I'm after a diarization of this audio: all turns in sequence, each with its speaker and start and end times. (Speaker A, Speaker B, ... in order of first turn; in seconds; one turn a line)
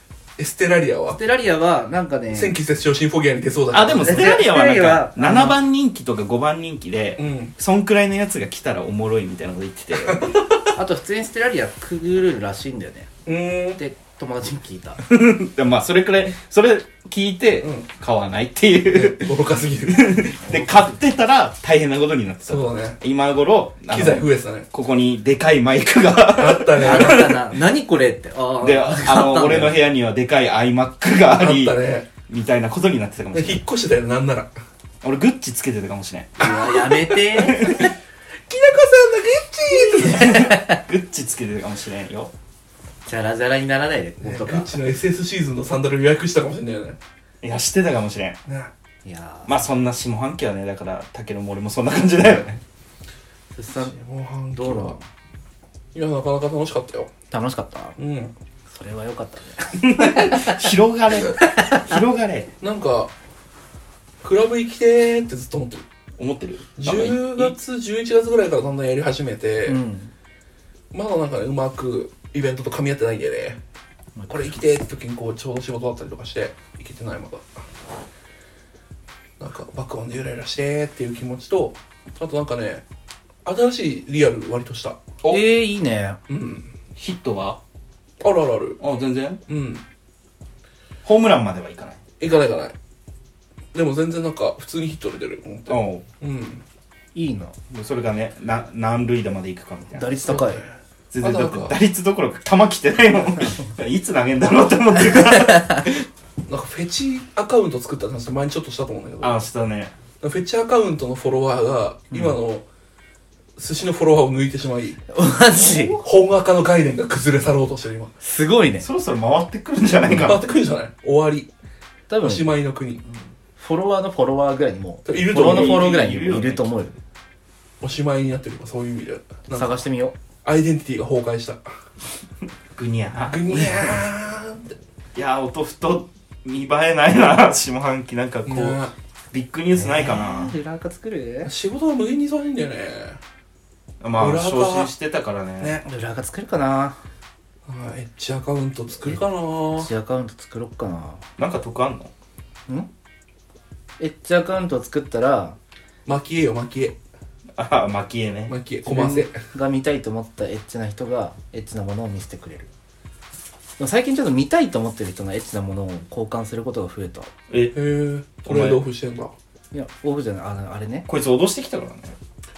Speaker A: 0.4-1.2
Speaker B: 1.1-2.6
Speaker A: 2.3-4.5
Speaker C: 3.7-10.3
Speaker B: 4.0-5.6
Speaker A: 7.2-7.5
Speaker A: 10.0-10.7
Speaker B: 10.7-13.1
Speaker A: 13.3-13.8
Speaker B: 13.8-15.0
Speaker C: 15.0-19.3
Speaker A: 17.6-17.9
Speaker A: 18.9-20.3
Speaker C: 19.9-27.4
Speaker B: 20.5-21.0
Speaker A: 22.5-23.0
Speaker A: 23.9-24.7
Speaker A: 26.4-27.4
Speaker B: 26.8-29.8
Speaker C: 28.6-33.6
Speaker A: 31.3-32.1
Speaker A: 33.3-34.5
Speaker C: 35.0-36.7
Speaker B: 36.4-37.9
Speaker A: 36.4-37.6
Speaker C: 37.3-37.9
Speaker A: 38.5-40.5
Speaker B: 39.9-40.7
Speaker C: 40.0-42.3
Speaker B: 43.0-44.7
Speaker A: 44.2-47.0
Speaker C: 47.4-48.4
Speaker A: 48.5-48.7
Speaker B: 49.0-49.5
Speaker C: 49.5-52.6
Speaker B: 53.5-53.9
Speaker A: 53.8-55.0
Speaker B: 54.5-55.0
Speaker A: 55.9-57.1
Speaker B: 57.3-58.0
Speaker A: 58.0-58.3
Speaker B: 58.7-60.7
Speaker C: 59.8-62.5
Speaker A: 62.6-63.1
Speaker A: 64.2-65.9
Speaker C: 66.2-67.5
Speaker A: 66.8-69.8
Speaker B: 69.7-70.1
Speaker A: 70.9-73.6
Speaker B: 74.2-74.5
Speaker A: 74.3-77.7
Speaker A: 79.4-82.8
Speaker A: 83.4-85.4
Speaker B: 85.3-86.2
Speaker A: 86.3-86.7
Speaker C: 87.0-87.6
Speaker A: 88.2-88.8
Speaker C: 88.8-89.4
Speaker A: 89.5-89.8
Speaker C: 91.0-92.0
Speaker A: 92.2-92.8
Speaker A: 93.7-96.6
Speaker C: 95.7-96.1
Speaker B: 97.1-97.6
Speaker C: 97.7-100.4
Speaker B: 100.0-100.6
Speaker A: 100.2-100.7
Speaker C: 101.1-106.1
Speaker A: 101.2-101.8
Speaker B: 105.3-105.8
Speaker A: 106.5-109.4
Speaker C: 109.2-109.9
Speaker A: 110.2-112.7
Speaker A: 113.6-115.0
Speaker B: 115.1-116.0
Speaker A: 116.0-118.2
Speaker B: 118.2-118.9
Speaker C: 118.8-120.4
Speaker A: 120.2-121.5
Speaker B: 122.1-122.5
Speaker A: 122.2-123.0
Speaker B: 123.6-127.0
Speaker A: 125.1-125.9
Speaker C: 125.3-126.7
Speaker A: 127.8-129.8
Speaker B: 129.5-130.2
Speaker A: 130.4-131.7
Speaker C: 132.8-133.9
Speaker A: 133.2-134.7
Speaker C: 135.2-138.8
Speaker A: 138.4-138.9
Speaker C: 139.3-140.5
Speaker B: 139.8-141.5
Speaker A: 141.4-143.2
Speaker C: 144.0-145.8
Speaker A: 144.2-144.9
Speaker B: 145.8-147.0
Speaker A: 147.7-149.9
Speaker B: 149.1-151.2
Speaker C: 151.4-152.1
Speaker B: 154.0-155.6
Speaker A: 156.1-157.0
Speaker C: 157.6-158.6
Speaker A: 158.5-159.4
Speaker B: 158.9-162.7
Speaker B: 163.8-167.3
Speaker C: 167.5-167.8
Speaker A: 167.7-169.3
Speaker C: 168.4-168.8
Speaker B: 169.7-171.1
Speaker C: 171.1-172.2